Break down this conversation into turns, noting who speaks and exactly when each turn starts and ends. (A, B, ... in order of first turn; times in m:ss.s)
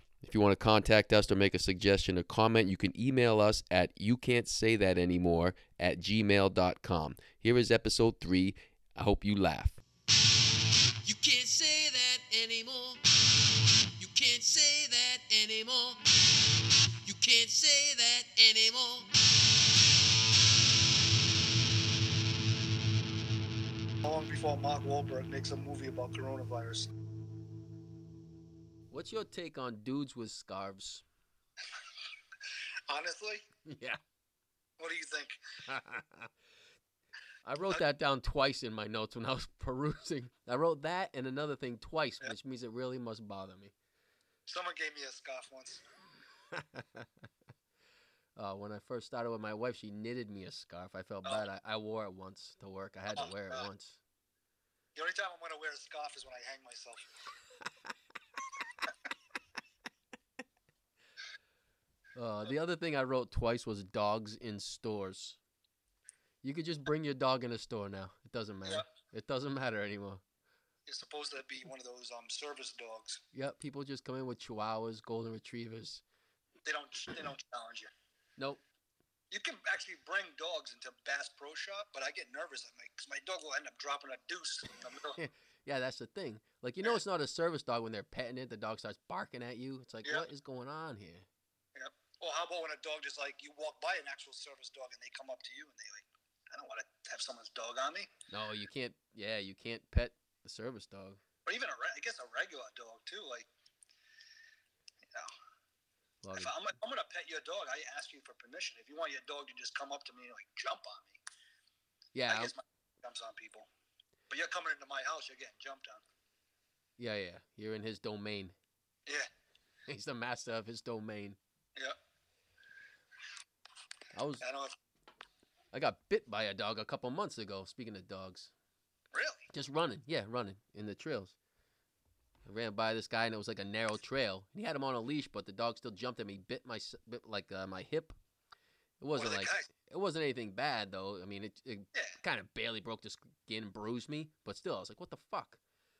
0:00.2-0:09.8 A
0:11.0-0:13.0 A
0:14.0-0:16.0 A
0:17.0-0:19.1 A
0:24.0-0:26.9 B
0:28.9-0:31.0 A
0:32.9-0:33.4 B
0:33.6-0:34.0 A
0:34.8-0:35.4 B
0:35.6-0:36.3 A
0:37.4-0:43.7 A
0:44.5-0:45.8 B
0:46.5-0:47.1 A
0:48.4-0:54.0 A
0:53.1-0:53.7 B
0:54.9-0:57.1 B
1:02.1-1:05.4 A
1:06.4-1:10.2 A
1:10.8-1:13.2 B
1:13.3-1:16.0 A
1:16.6-1:17.9 B
1:18.4-1:18.6 A
1:19.3-1:25.2 B
1:25.1-1:31.2 A
1:31.7-1:38.1 B
1:38.3-1:41.2 A
1:41.4-1:43.5 B
1:46.2-1:46.5 A
1:46.3-1:51.2 B
1:52.1-1:52.5 A
1:52.3-1:53.7 B
1:54.3-1:56.0 B
1:57.0-1:58.5 A
1:59.9-2:01.4 A
2:04.1-2:04.4 A
2:04.4-2:04.8 B
2:05.7-2:08.5 A
2:09.1-2:09.5 B
2:09.5-2:11.3 A
2:12.4-2:18.2 A
2:19.0-2:25.6 A
2:19.2-2:19.7 B